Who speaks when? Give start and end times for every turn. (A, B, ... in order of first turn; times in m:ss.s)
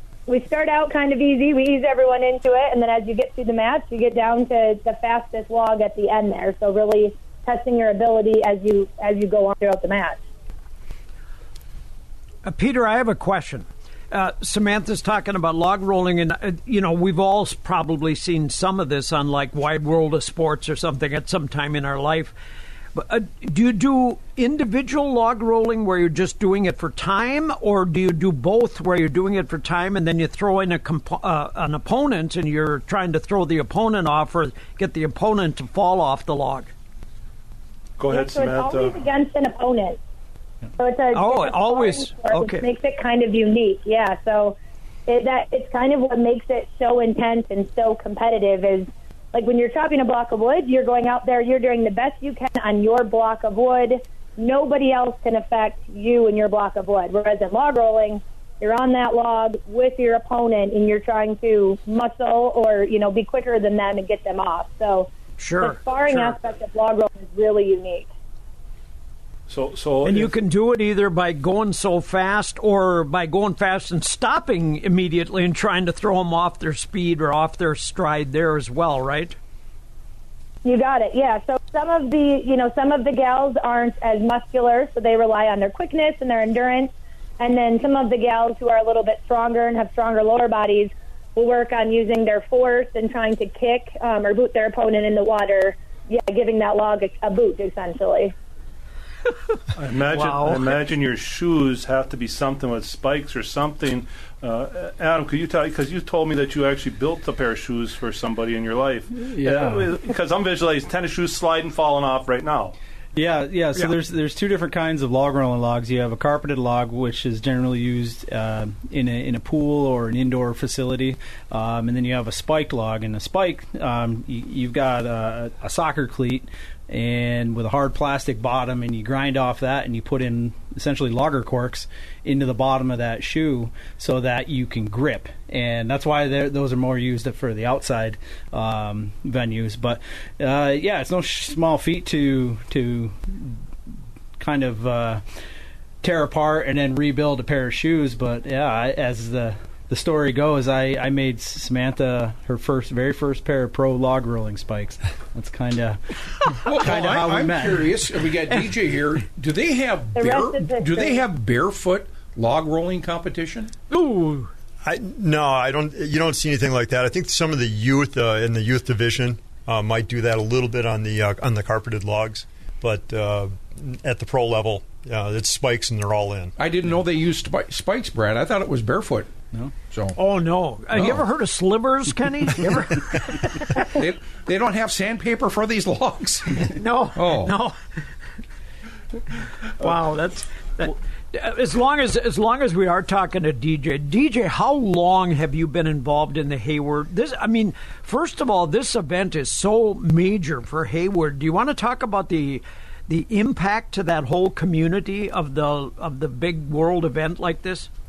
0:00.3-0:10.2 A
0:12.4-0:22.4 B
0:22.9-0:36.7 B
0:38.0-0:39.0 C
0:38.1-0:40.0 A
0:40.8-1:05.1 A
0:41.1-0:42.7 B
1:05.4-1:06.4 B
1:05.6-1:08.1 A
1:09.5-1:10.3 C
1:10.0-1:19.4 B
1:20.6-1:38.3 A
1:39.8-1:52.8 C
1:40.1-1:40.8 B
1:49.2-1:49.9 D
1:53.2-2:23.6 D
2:24.4-2:25.2 D
2:26.0-2:36.0 D
2:36.6-2:37.9 D
2:36.6-2:43.7 E
2:40.2-2:41.2 A
2:43.9-2:44.5 B
2:44.8-2:56.5 F
2:56.6-2:59.3 E
2:59.9-3:00.2 E
3:00.2-3:03.9 B
3:00.9-3:01.3 E
3:02.6-3:02.9 E
3:03.8-3:07.6 E
3:06.7-3:07.8 B
3:09.8-3:27.9 B